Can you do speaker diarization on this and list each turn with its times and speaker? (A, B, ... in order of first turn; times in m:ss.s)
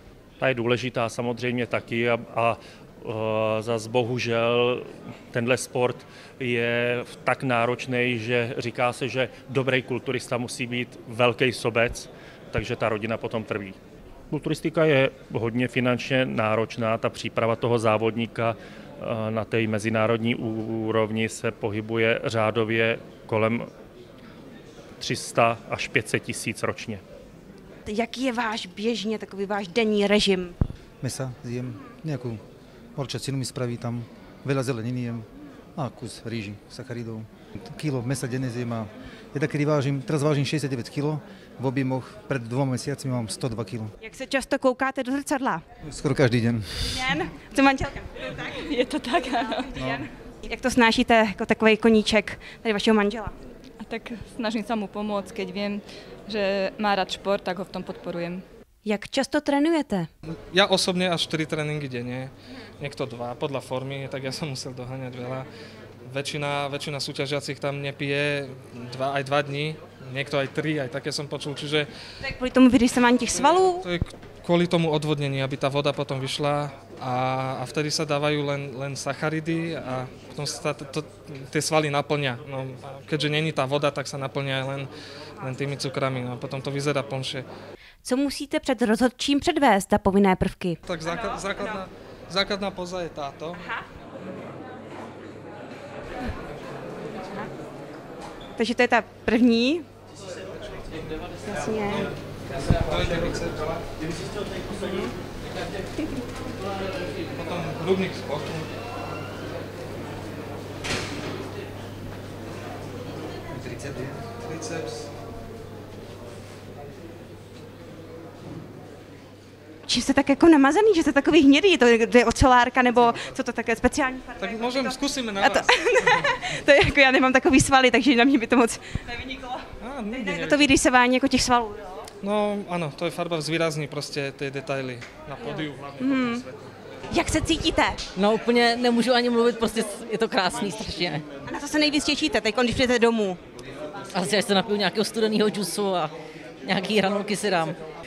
0:00.4-0:13.8 A
0:14.3-0:23.7 A
0:25.0-0:27.0 A
0:27.9-0:30.6 B
0:31.0-0:32.4 C
0:33.0-0:43.9 C
0:44.0-0:45.6 B
0:45.8-0:47.0 C
0:46.8-0:48.4 B
0:48.5-0:49.7 D
0:49.7-0:53.3 B
0:49.7-0:50.0 C
0:53.8-0:58.4 D
0:58.8-1:00.1 B
1:00.3-1:05.5 E
1:06.1-1:11.9 E
1:12.2-1:13.9 B
1:13.4-1:27.5 E
1:28.0-1:30.8 B
1:30.8-1:33.8 E
1:38.6-1:39.9 B
1:41.5-1:42.1 B
1:41.9-1:43.8 E
1:44.8-1:45.1 E
1:47.3-1:48.7 E
1:53.5-1:55.1 E
1:59.9-2:09.6 B
2:03.0-2:03.2 E
2:04.4-2:06.3 E
2:09.8-2:10.7 E
2:10.1-2:12.1 B
2:12.2-2:16.5 E
2:16.0-2:16.5 B
2:17.1-2:18.0 B
2:18.2-2:21.3 F
2:21.5-2:23.4 B
2:24.1-2:27.8 F